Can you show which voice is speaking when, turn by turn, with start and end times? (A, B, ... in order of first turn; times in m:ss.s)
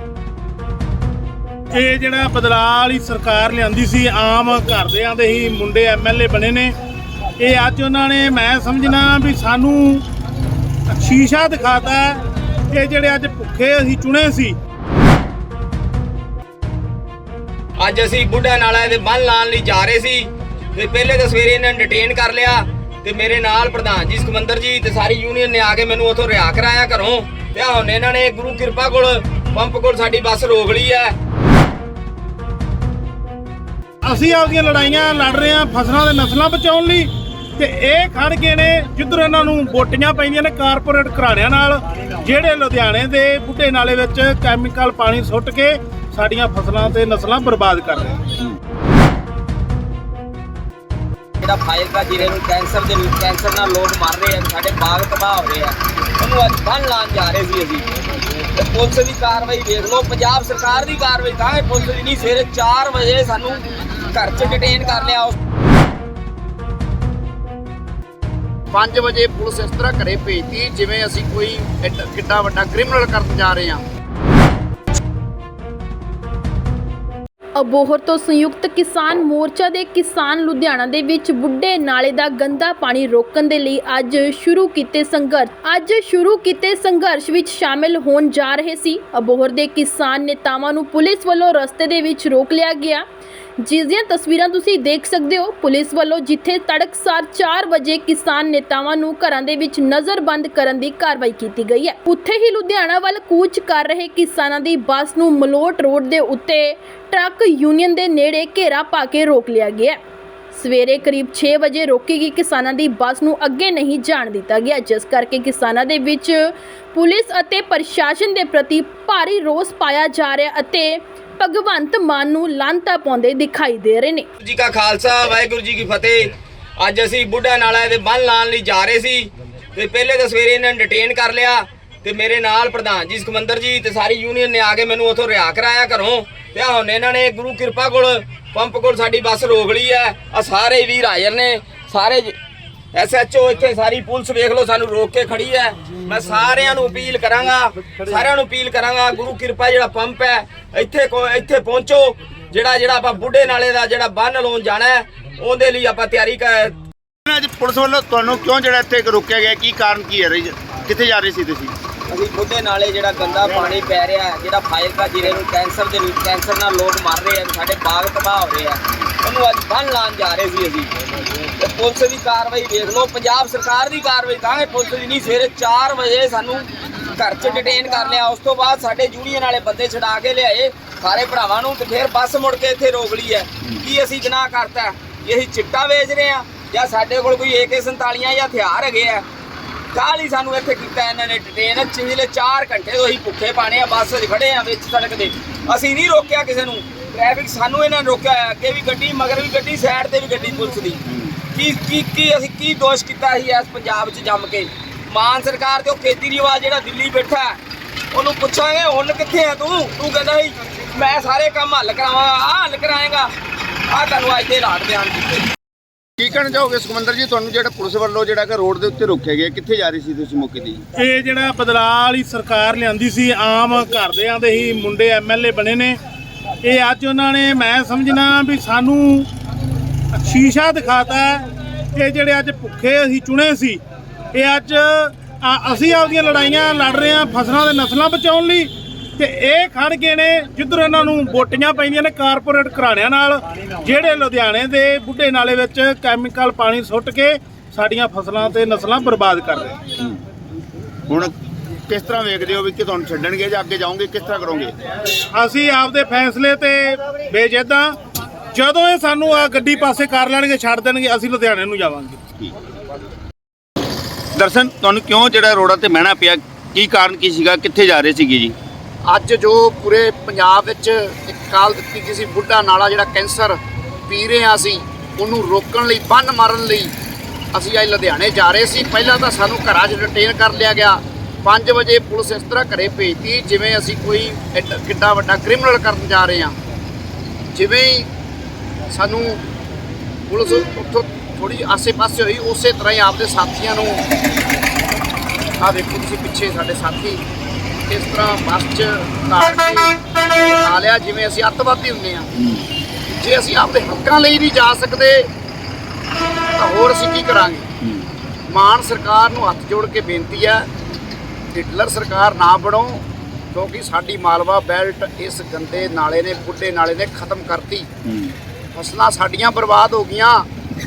0:01.7-0:06.7 A
0:07.4-0:10.0 A
0:10.9-0:12.2 A
0:12.7-0:14.6 A
0:17.8-0:31.1 B
0:34.0-0:48.2 A
0:51.4-0:57.9 B
0:58.5-1:05.4 B
1:08.7-1:13.8 C
1:17.6-1:33.0 D
1:33.6-1:50.0 D
1:50.5-2:04.3 D
2:04.4-2:22.3 B
2:22.9-2:36.8 B
2:37.3-2:41.7 E
2:42.1-2:50.9 B
2:51.6-3:09.2 B
3:09.9-3:27.6 B
3:28.1-3:33.3 B
3:33.9-3:35.4 B
3:36.2-3:40.8 E
3:41.0-3:46.0 A
3:46.6-3:49.3 A
3:50.1-3:53.8 A
3:54.3-4:09.8 A
4:11.1-4:11.3 E
4:11.9-4:14.8 E
4:15.3-4:17.9 A
4:18.5-4:22.2 A
4:24.4-4:28.6 E
4:29.1-4:36.9 C
4:37.5-4:46.6 C
4:47.5-4:48.1 C
4:48.9-4:49.4 C
4:50.3-4:54.0 C
4:55.6-4:57.2 C
4:57.9-5:02.3 C
5:02.4-5:02.6 E
5:03.1-5:05.3 C
5:06.6-5:07.7 C
5:08.5-5:10.7 C
5:11.5-5:17.9 C
5:18.1-5:18.3 E
5:18.8-5:20.5 C